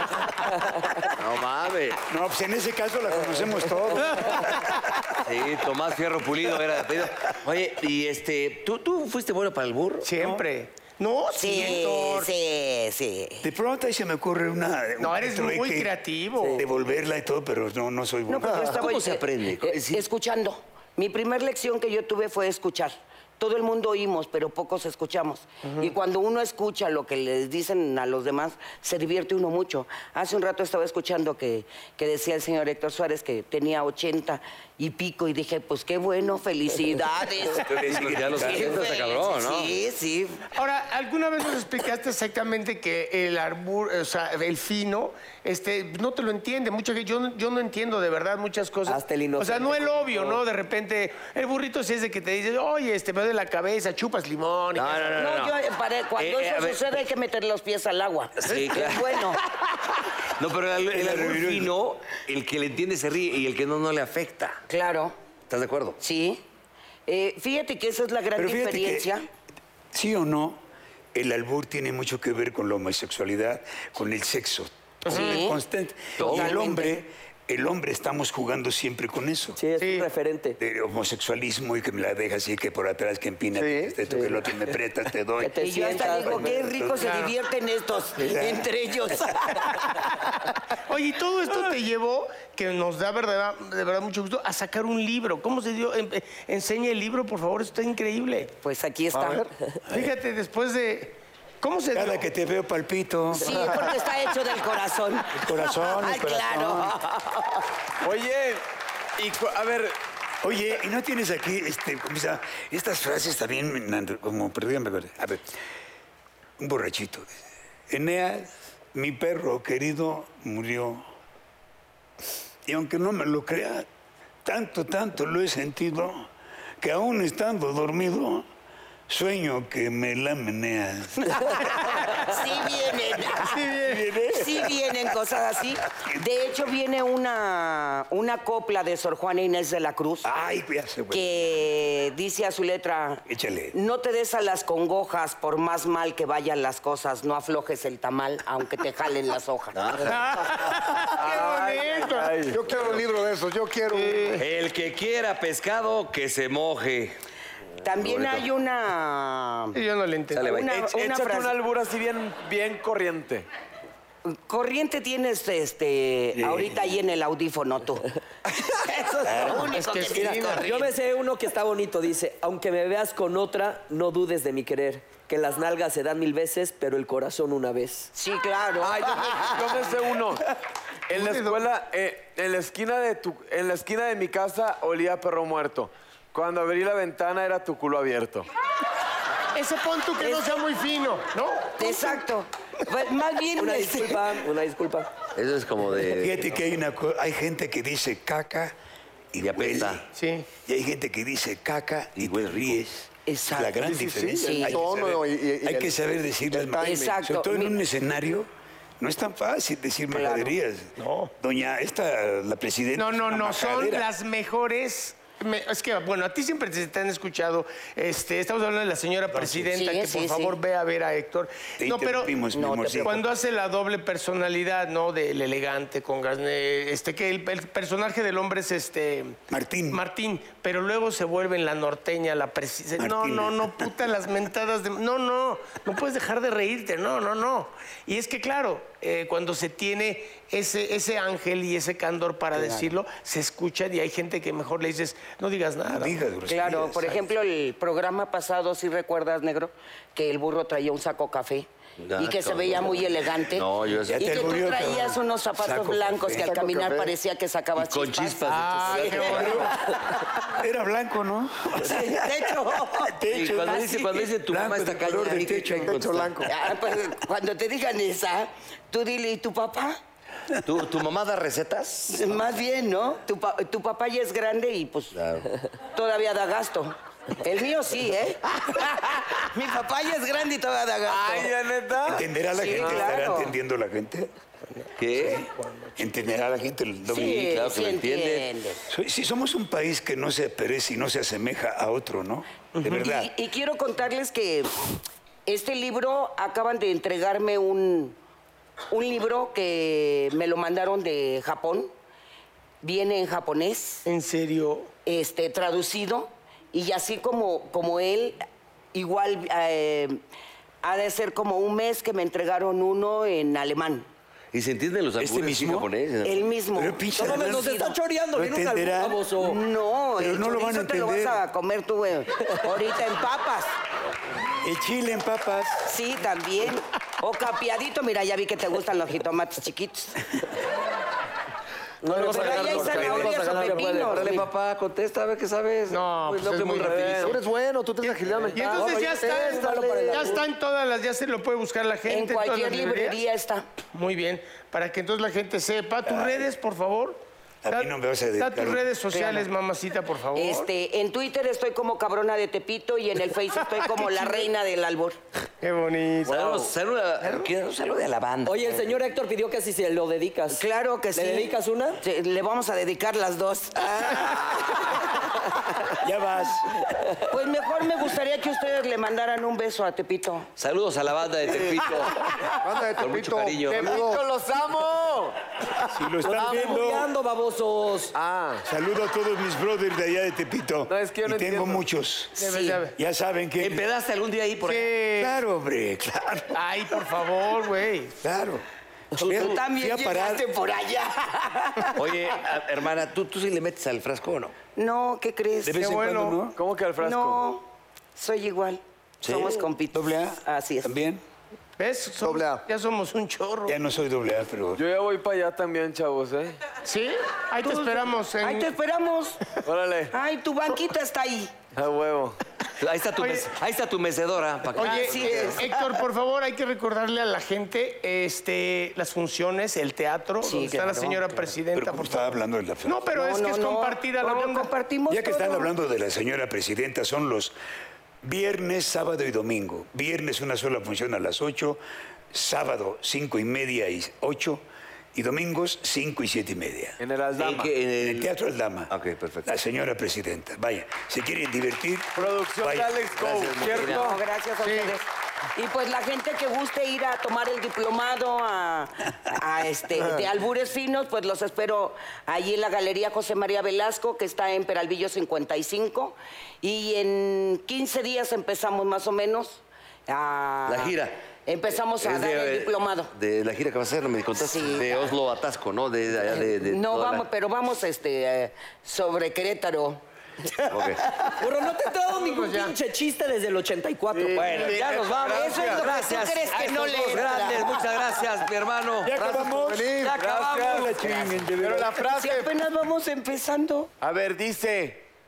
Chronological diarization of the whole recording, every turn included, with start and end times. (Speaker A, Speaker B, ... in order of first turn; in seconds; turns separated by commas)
Speaker A: 1.1-2.0, Speaker B: 2.1-5.2, Speaker A: 5.2-10.1, Speaker C: 10.0-12.3, Speaker B: 10.2-10.4, Speaker D: 11.3-13.4, Speaker B: 13.4-15.9, Speaker C: 15.0-16.6, Speaker B: 16.6-18.7, Speaker D: 18.3-40.4, Speaker A: 18.5-20.0, Speaker C: 25.6-25.9, Speaker B: 37.6-38.9, Speaker A: 37.8-39.7, Speaker C: 40.5-55.2, Speaker E: 48.9-50.4, Speaker A: 54.7-55.6, Speaker D: 55.1-59.4, Speaker A: 56.2-57.0, Speaker A: 58.4-59.4, Speaker A: 60.4-64.6, Speaker B: 60.9-61.7, Speaker D: 64.7-65.2, Speaker A: 65.5-66.0, Speaker D: 66.0-66.4, Speaker D: 67.1-69.3, Speaker B: 68.3-69.1, Speaker B: 69.9-70.6, Speaker B: 71.1-79.6, Speaker C: 75.0-75.4, Speaker D: 75.1-75.6, Speaker A: 76.2-76.5, Speaker D: 76.2-77.0, Speaker E: 79.6-80.6, Speaker C: 79.8-80.1, Speaker B: 80.6-87.2, Speaker F: 83.5-84.0, Speaker E: 85.4-86.5, Speaker D: 85.6-89.8, Speaker C: 87.0-87.3, Speaker B: 88.2-88.7, Speaker C: 90.9-98.5, Speaker D: 98.6-99.5, Speaker F: 99.1-99.5, Speaker C: 99.9-102.2, Speaker B: 101.9-103.6, Speaker D: 103.3-107.6, Speaker B: 105.3-107.0, Speaker G: 108.0-108.6, Speaker G: 109.2-110.0, Speaker B: 110.4-115.5, Speaker B: 116.6-117.3, Speaker B: 117.9-121.0, Speaker B: 122.6-123.8, Speaker B: 124.4-126.3, Speaker B: 126.8-128.4, Speaker B: 129.1-131.7, Speaker D: 132.1-140.3, Speaker C: 133.5-134.1, Speaker B: 133.8-135.1, Speaker B: 135.8-136.2, Speaker B: 140.2-141.2, Speaker D: 141.1-149.8, Speaker B: 143.3-143.7, Speaker A: 149.7-150.6, Speaker C: 150.0-152.3, Speaker G: 151.2-152.6, Speaker F: 151.3-154.4, Speaker C: 153.9-154.4, Speaker A: 154.4-157.2, Speaker D: 157.8-159.8, Speaker A: 157.9-158.5, Speaker C: 159.7-160.6, Speaker A: 160.3-160.7, Speaker D: 160.4-161.6, Speaker G: 160.6-163.4, Speaker D: 164.2-168.1, Speaker B: 166.3-166.8, Speaker D: 168.6-170.9, Speaker C: 168.9-170.7, Speaker B: 169.2-169.7, Speaker E: 170.4-178.1, Speaker D: 178.1-179.8, Speaker G: 178.8-180.4, Speaker G: 181.1-188.5, Speaker C: 181.1-181.6, Speaker C: 189.5-192.2, Speaker D: 191.8-194.3, Speaker E: 193.6-195.1, Speaker A: 195.3-196.6, Speaker B: 196.1-198.7, Speaker B: 199.3-200.0, Speaker A: 199.4-200.0, Speaker C: 200.1-200.5, Speaker B: 200.6-208.5, Speaker A: 202.2-202.8, Speaker D: 203.3-203.8, Speaker F: 203.8-206.0, Speaker D: 204.3-204.8, Speaker F: 206.5-207.2, Speaker D: 206.8-207.7, Speaker B: 209.0-214.1, Speaker D: 210.1-210.6, Speaker C: 211.0-211.3, Speaker C: 212.9-222.4, Speaker B: 219.3-219.7, Speaker D: 219.7-220.6, Speaker B: 221.8-223.2, Speaker D: 222.5-223.2, Speaker C: 223.0-229.4, Speaker B: 229.5-230.0, Speaker C: 229.9-246.2, Speaker B: 233.0-233.8, Speaker D: 242.5-242.9, Speaker B: 245.9-247.2, Speaker D: 246.4-259.9, Speaker A: 252.0-254.6, Speaker B: 254.1-256.5, Speaker F: 256.3-257.1, Speaker A: 257.8-259.8, Speaker C: 258.5-259.9, Speaker B: 259.3-259.7, Speaker B: 260.4-266.0, Speaker D: 261.8-263.2, Speaker A: 263.3-266.4, Speaker F: 265.8-266.5, Speaker D: 266.4-270.0, Speaker A: 270.6-272.3, Speaker D: 272.1-275.2, Speaker A: 275.1-275.5, Speaker D: 275.9-281.5, Speaker G: 281.1-283.1, Speaker B: 282.1-284.3, Speaker D: 282.4-283.5, Speaker A: 285.0-285.4, Speaker B: 285.1-287.6, Speaker D: 287.1-288.8, Speaker A: 287.3-288.5, Speaker B: 288.9-293.3, Speaker C: 292.8-293.0, Speaker D: 292.9-298.2, Speaker D: 298.9-301.9, Speaker D: 302.8-304.1, Speaker C: 304.0-304.9, Speaker D: 305.1-310.2, Speaker D: 310.8-314.1, Speaker A: 314.5-316.5, Speaker B: 315.2-315.9, Speaker D: 316.2-318.0, Speaker B: 316.7-317.8, Speaker E: 317.1-319.6, Speaker B: 318.3-319.3, Speaker D: 319.4-323.7, Speaker B: 320.2-321.4, Speaker B: 324.6-325.9, Speaker D: 325.8-330.2, Speaker E: 332.0-334.4, Speaker F: 332.1-332.4, Speaker D: 332.1-334.5, Speaker C: 332.2-333.0, Speaker G: 332.3-333.5, Speaker A: 333.9-337.4, Speaker C: 335.9-337.1, Speaker G: 336.4-337.4, Speaker F: 337.1-340.4, Speaker E: 338.5-340.4, Speaker C: 338.5-343.2, Speaker D: 342.1-343.6, Speaker C: 343.9-350.7, Speaker B: 346.1-346.4, Speaker B: 347.6-348.9, Speaker D: 349.1-349.5, Speaker D: 350.3-355.2, Speaker C: 353.8-354.5, Speaker C: 355.6-356.7, Speaker A: 356.3-358.9, Speaker E: 358.4-362.0, Speaker D: 360.5-364.2, Speaker B: 363.8-365.1, Speaker B: 365.8-366.9, Speaker D: 367.3-370.5, Speaker A: 370.6-373.9, Speaker F: 372.6-374.2, Speaker G: 373.7-375.4, Speaker B: 375.9-377.1, Speaker E: 376.2-378.1, Speaker G: 376.3-376.8, Speaker G: 378.1-378.6, Speaker B: 378.6-383.8, Speaker G: 380.9-381.9, Speaker C: 382.4-382.9, Speaker A: 383.6-384.9, Speaker C: 384.6-385.3, Speaker B: 385.2-386.6, Speaker C: 386.5-388.1, Speaker B: 388.2-390.5, Speaker D: 389.1-392.1, Speaker A: 391.9-394.5, Speaker D: 394.8-395.9, Speaker B: 395.6-396.6, Speaker C: 395.8-396.4, Speaker G: 396.5-397.5, Speaker D: 397.0-400.9, Speaker A: 399.2-399.7, Speaker B: 399.9-401.2, Speaker C: 401.8-403.8, Speaker F: 402.2-402.6, Speaker B: 403.7-404.8, Speaker G: 404.8-406.6, Speaker C: 406.8-408.7, Speaker D: 407.6-409.5, Speaker G: 409.6-410.1, Speaker D: 410.1-411.6, Speaker G: 411.7-412.4, Speaker A: 412.8-415.8, Speaker C: 413.2-413.5, Speaker C: 414.8-424.7, Speaker D: 414.8-415.7, Speaker G: 415.1-415.5, Speaker D: 420.4-421.5, Speaker B: 421.7-423.1, Speaker D: 423.1-425.7, Speaker B: 425.1-427.5, Speaker B: 428.2-431.8, Speaker B: 432.3-434.6, Speaker B: 435.1-437.0, Speaker G: 437.0-437.8, Speaker A: 437.4-438.3, Speaker B: 437.9-438.9, Speaker A: 438.9-439.5, Speaker B: 439.4-442.9, Speaker G: 442.1-444.2, Speaker A: 443.1-444.1, Speaker D: 443.8-463.1, Speaker C: 444.6-444.9, Speaker A: 460.7-461.2, Speaker A: 461.7-467.2, Speaker D: 464.4-465.1, Speaker D: 466.3-471.3, Speaker A: 470.7-471.0, Speaker E: 471.4-474.7, Speaker C: 472.1-472.4, Speaker G: 474.1-475.9, Speaker A: 474.3-479.1, Speaker D: 475.2-478.2, Speaker G: 476.6-477.2, Speaker B: 479.0-481.9, Speaker F: 479.1-480.2, Speaker A: 480.0-480.4, Speaker G: 480.1-482.5, Speaker D: 481.9-483.9, Speaker G: 484.0-485.0